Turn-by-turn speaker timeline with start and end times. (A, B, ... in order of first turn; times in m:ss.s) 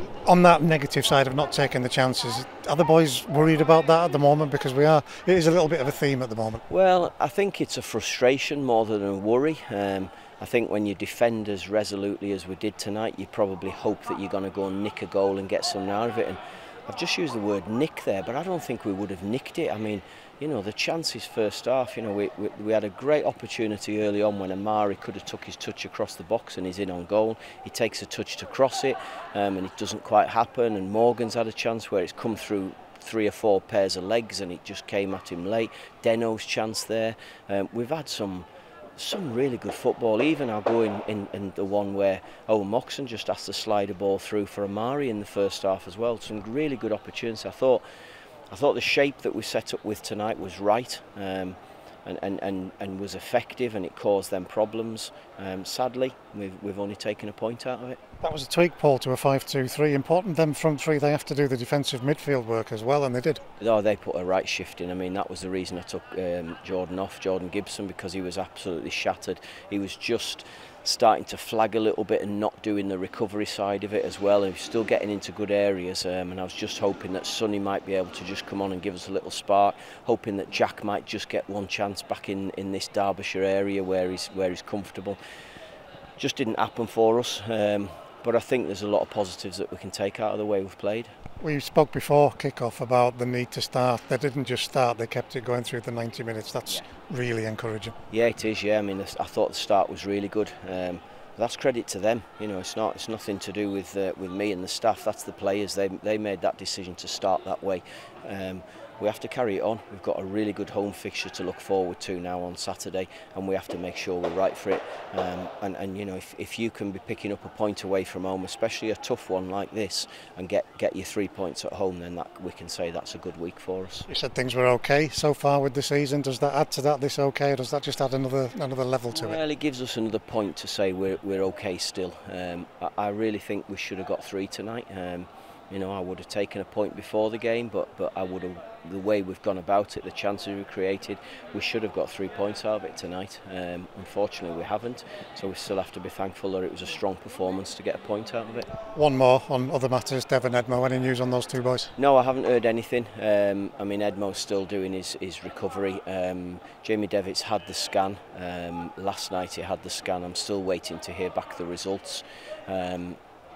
0:00.2-0:06.6 A
0:06.7-0:47.8 B
0:48.5-0:58.0 B
0:58.2-1:03.4 A
1:03.6-1:25.2 B
1:26.2-1:31.1 B
1:31.4-1:37.9 A
1:38.1-2:04.1 B
2:04.1-2:09.4 A
2:09.1-2:28.7 B
2:28.9-2:31.9 A
2:32.0-2:43.2 B